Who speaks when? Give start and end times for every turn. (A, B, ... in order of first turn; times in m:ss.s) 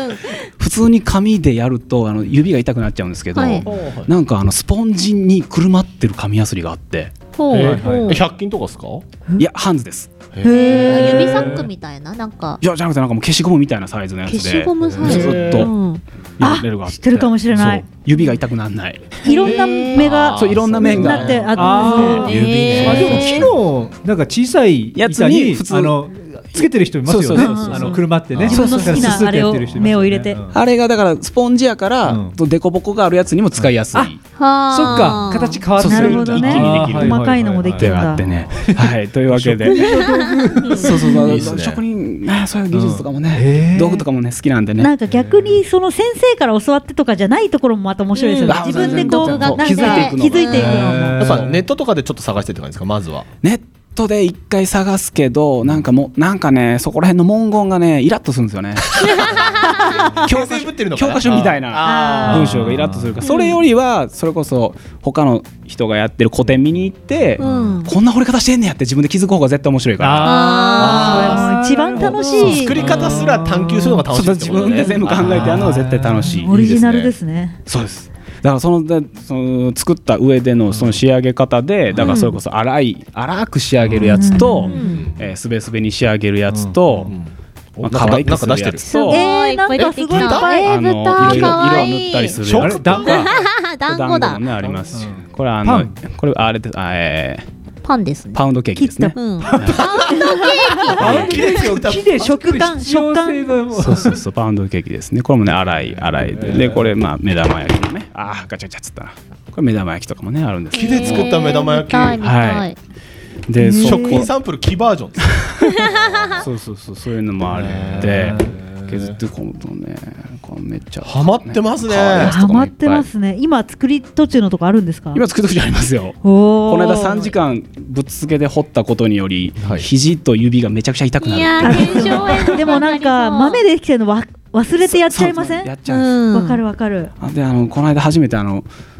0:00.6-0:07.6 A
0:03.4-0:03.6 B
0:03.6-0:04.1 C
0:07.4-0:08.2 B
0:07.5-0:08.2 D
0:07.5-0:09.0 C
0:09.4-0:10.1 A
0:10.3-0:11.6 C
0:10.4-0:11.3 E
0:10.5-0:12.6 B
0:11.1-0:11.7 D
0:12.6-0:15.7 A
0:14.3-0:16.0 B
0:14.8-0:15.7 C
0:16.4-0:22.0 A
0:16.4-0:17.8 E
0:19.2-0:22.4 E
0:19.4-0:30.6 D
0:20.2-0:23.5 C
0:22.2-0:23.4 B
0:22.7-0:23.3 A
0:25.0-0:29.3 A
0:27.3-0:30.4 E
0:28.3-0:28.6 C
0:30.5-0:34.2 A
0:32.1-0:32.4 D
0:33.6-0:34.2 D
0:34.4-0:35.6 B
0:34.7-0:41.5 D
0:35.8-0:38.3 E
0:35.8-0:40.0 A
0:40.7-0:44.9 A
0:41.2-0:41.8 C
0:42.7-0:44.0 D
0:44.8-0:51.3 E
0:45.0-0:45.6 D
0:48.2-0:50.1 B
0:48.4-0:51.4 A
0:50.4-0:51.7 D
0:51.2-0:53.3 C
0:53.4-0:59.4 A
1:00.1-1:02.5 C
1:00.2-1:11.4 A
1:01.9-1:02.2 B
1:02.2-1:03.2 D
1:03.2-1:03.6 B
1:07.4-1:07.8 D
1:07.4-1:07.9 B
1:10.0-1:14.1 D
1:10.2-1:11.4 B
1:10.8-1:12.9 E
1:12.4-1:13.0 A
1:12.4-1:15.7 C
1:14.1-1:16.9 A
1:15.0-1:16.4 D
1:16.3-1:17.6 E
1:16.5-1:17.1 C
1:17.7-1:27.1 A
1:22.0-1:22.4 B
1:23.8-1:24.9 D
1:24.0-1:24.9 E
1:24.7-1:25.0 B
1:24.8-1:25.1 C
1:26.5-1:27.1 D
1:27.1-1:28.9 C
1:27.8-1:29.2 A
1:28.8-1:32.3 B
1:29.1-1:30.8 E
1:29.7-1:30.7 C
1:30.5-1:33.3 A
1:31.2-1:31.9 C
1:32.4-1:33.2 C
1:32.5-1:33.2 D
1:33.5-1:34.4 B
1:33.8-1:37.5 A
1:34.6-1:35.1 C
1:34.9-1:36.0 D
1:37.8-1:38.4 B
1:38.3-1:40.0 A
1:38.8-1:39.4 E
1:39.2-1:40.5 B
1:39.5-1:40.3 C
1:40.5-1:44.2 D
1:40.9-1:42.2 C
1:42.2-1:43.5 E
1:43.7-1:51.5 A
1:46.1-1:46.9 C
1:50.7-1:52.3 C
1:50.8-1:52.8 B
1:52.2-1:52.7 A
1:53.5-1:54.3 A
1:53.6-1:54.3 E
1:53.6-1:56.5 C
1:56.4-2:03.1 A
1:57.5-1:59.2 C
1:58.1-1:58.6 D
2:01.0-2:03.0 C
2:02.1-2:05.2 E
2:05.1-2:12.7 A
2:06.2-2:07.3 E
2:09.6-2:09.9 C
2:11.2-2:13.6 B
2:11.6-2:15.7 E
2:14.8-2:16.2 A
2:15.9-2:16.6 B
2:16.3-2:17.1 E
2:17.2-2:18.7 A